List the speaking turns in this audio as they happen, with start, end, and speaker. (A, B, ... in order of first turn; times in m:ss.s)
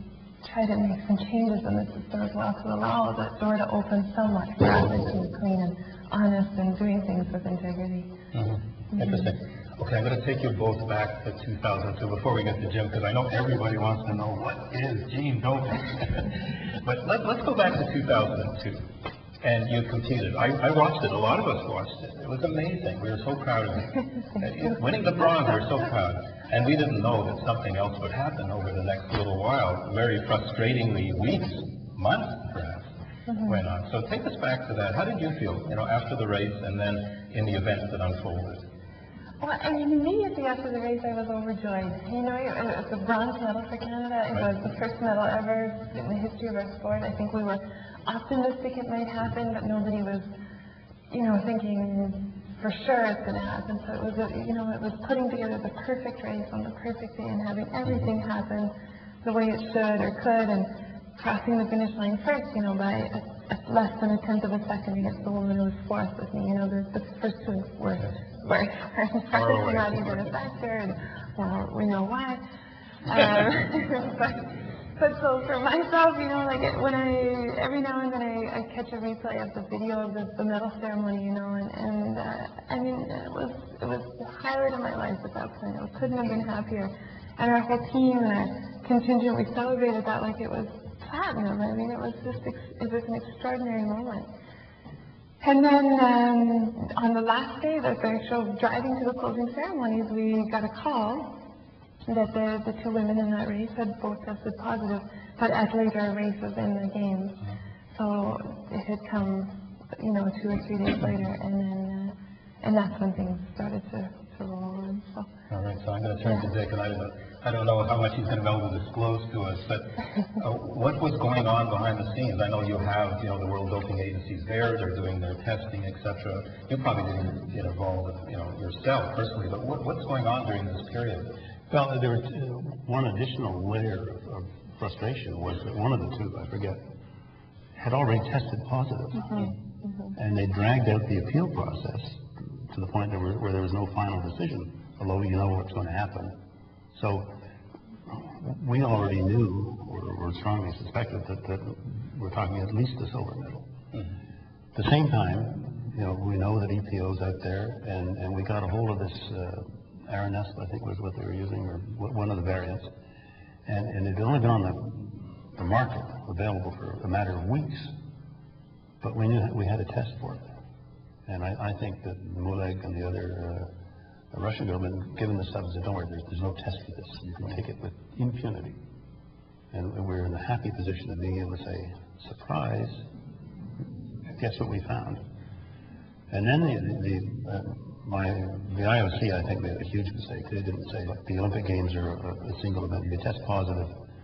0:00.4-0:08.1 A
0:08.3-0:18.9 B
0:19.4-0:32.9 B
0:33.3-0:33.6 A
0:33.4-0:38.7 B
0:39.4-0:50.3 A
0:51.1-1:12.4 A
1:09.3-1:10.3 B
1:13.1-1:34.3 A
1:35.4-1:41.3 A
1:42.1-1:47.4 A
1:48.0-1:55.3 A
1:55.5-2:11.3 B
2:11.7-2:16.8 C
2:17.8-2:19.5 C
2:19.2-2:20.2 A
2:20.2-2:26.4 C
2:26.9-2:27.3 C
2:28.1-2:33.7 C
2:34.8-2:42.9 C
2:43.6-2:47.9 C
2:49.0-2:50.4 C
2:51.3-2:53.7 C
2:54.3-2:58.8 C
2:59.7-3:03.0 C
3:04.3-3:05.2 C
3:06.3-3:14.0 C